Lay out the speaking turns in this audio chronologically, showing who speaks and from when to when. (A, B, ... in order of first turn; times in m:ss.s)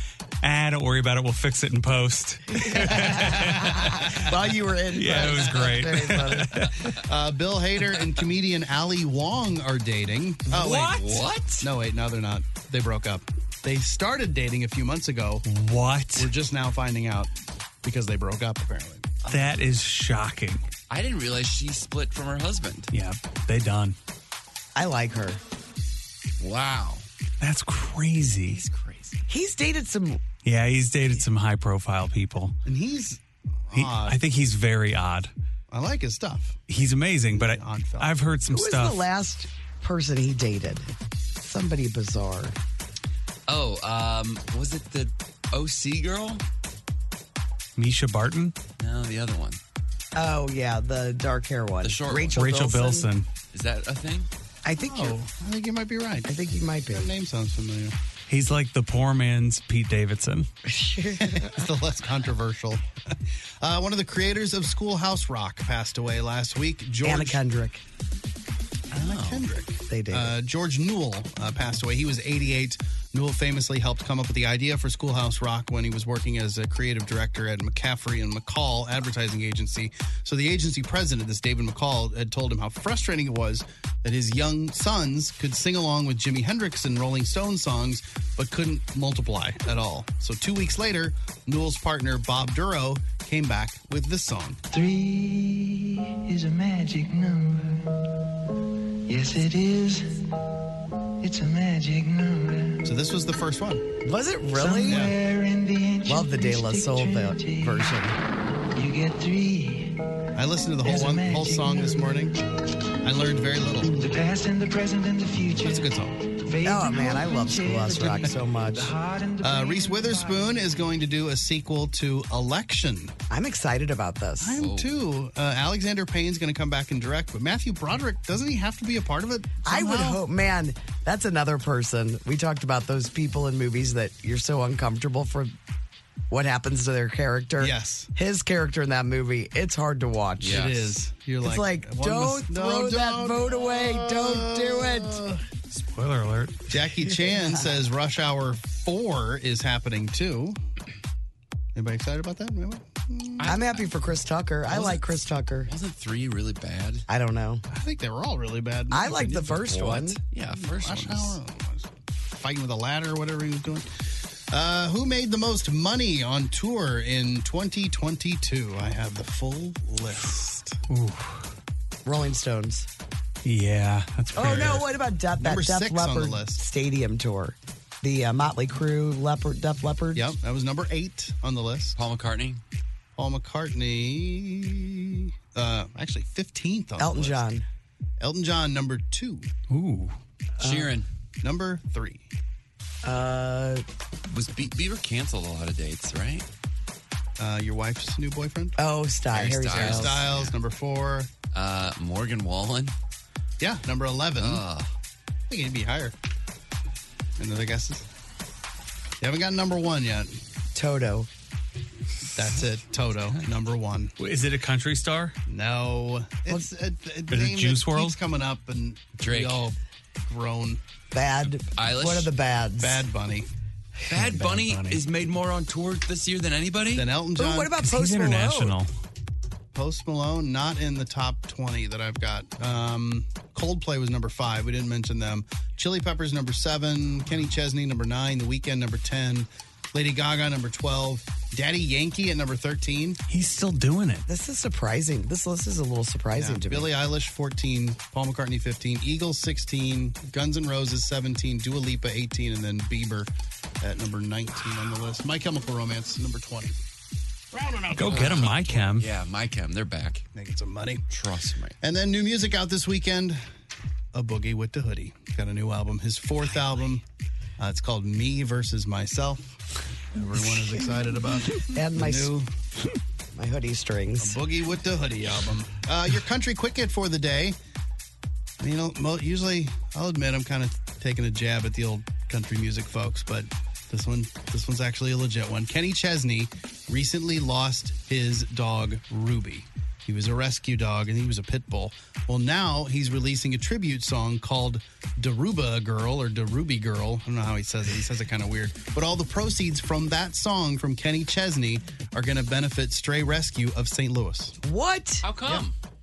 0:00.4-0:04.2 A
0:02.7-0:03.8 B
0:02.8-0:06.7 C
0:04.9-0:06.8 A
0:07.0-0:15.4 B
0:10.5-0:11.1 A
0:10.6-0:11.7 D
0:15.4-0:16.3 A
0:16.2-0:17.3 B
0:17.8-0:19.1 B
0:19.2-0:19.6 D
0:19.3-0:20.7 A
0:20.9-0:22.9 D
0:22.9-0:24.0 A
0:24.8-0:25.4 C
0:26.4-0:27.0 D
0:27.4-0:28.6 A
0:28.5-0:29.2 D
0:29.3-0:30.2 C
0:30.4-0:32.6 A
0:32.6-0:34.2 B
0:33.7-0:35.3 A
0:35.7-0:36.6 B
0:36.7-0:39.0 A
0:37.3-0:38.2 B
0:38.5-0:42.6 C
0:43.5-0:46.4 D
0:47.8-0:48.6 A
0:48.8-0:49.6 D
0:50.2-0:53.1 C
0:51.8-0:52.4 D
0:52.4-0:53.3 A
0:53.5-0:54.3 D
0:54.6-0:55.2 C
0:54.8-0:56.3 B
0:56.2-0:57.1 C
0:56.9-0:58.0 B
0:58.3-1:00.5 A
1:00.7-1:01.6 C
1:01.2-1:07.4 B
1:07.0-1:07.8 C
1:08.9-1:09.4 D
1:08.9-1:34.6 B
1:09.9-1:10.4 C
1:34.7-1:38.1 E
1:39.1-1:40.2 E
1:41.2-1:42.9 E
1:42.8-1:43.8 B
1:44.0-1:45.1 C
1:44.6-1:48.2 E
1:44.9-1:45.2 B
1:46.1-1:48.2 C
1:48.8-1:52.3 E
1:50.4-1:52.4 B
1:53.0-1:54.0 B
1:53.8-2:00.8 E
1:55.6-1:56.2 B
1:56.6-1:59.0 C
1:59.4-2:03.1 B
2:03.3-2:04.6 C
2:04.4-2:10.2 B
2:04.6-2:05.0 D
2:09.6-2:15.6 C
2:16.3-2:20.7 C
2:17.6-2:18.1 B
2:20.4-2:21.0 D
2:20.4-2:25.4 B
2:21.4-2:25.2 C
2:25.7-2:26.7 A
2:26.7-2:30.6 B
2:27.3-2:27.6 C
2:31.8-2:33.5 B
2:33.4-2:33.9 D
2:33.4-2:35.7 C
2:34.7-2:35.0 D
2:35.7-2:37.1 D
2:37.1-2:37.6 C
2:37.7-2:39.7 B
2:38.9-2:40.2 C
2:39.6-2:41.4 D
2:40.5-2:43.9 B
2:44.5-2:50.8 B
2:50.9-2:51.5 A
2:52.0-2:52.9 C
2:53.4-2:54.9 A
2:54.4-3:00.3 C
2:55.4-2:56.6 B
3:00.2-3:02.0 B
3:02.0-3:02.6 D
3:03.2-3:07.4 B
3:07.0-3:07.6 C
3:08.2-3:09.5 B
3:09.7-3:10.2 A
3:10.6-3:11.1 D
3:10.6-3:10.9 C
3:11.4-3:12.2 B
3:13.0-3:13.8 C
3:14.3-3:16.5 D
3:17.4-3:18.8 B
3:18.8-3:20.2 C
3:19.3-3:20.5 D
3:19.7-3:21.3 B
3:21.5-3:22.9 D
3:23.6-3:24.6 B
3:24.4-3:24.9 D
3:25.5-3:26.1 B
3:27.4-3:28.0 B
3:29.2-3:30.4 B
3:30.8-3:31.3 C
3:32.4-3:34.1 B
3:34.2-3:35.4 A
3:35.5-3:40.8 B
3:37.3-3:38.2 A
3:39.2-3:39.6 D
3:41.1-3:43.0 C
3:41.7-3:42.3 D
3:42.8-3:43.5 B
3:44.1-3:47.1 D
3:44.1-3:45.0 A
3:47.0-3:47.7 B
3:47.4-3:48.8 C
3:47.8-3:48.9 A
3:49.7-4:03.2 B
4:03.3-4:04.3 A
4:04.3-4:06.9 C
4:06.4-4:13.3 B
4:13.8-4:16.8 B
4:17.8-4:18.7 B
4:17.9-4:20.2 D
4:18.0-4:19.1 A
4:20.4-4:21.1 B
4:21.1-4:21.8 D
4:21.8-4:23.4 B
4:24.1-4:27.0 B
4:27.6-4:29.6 B
4:30.1-4:32.5 B
4:31.7-4:32.3 C
4:33.4-4:34.4 C
4:34.2-4:37.6 B
4:38.6-5:04.6 B
5:04.6-5:05.3 C
5:05.2-5:05.7 D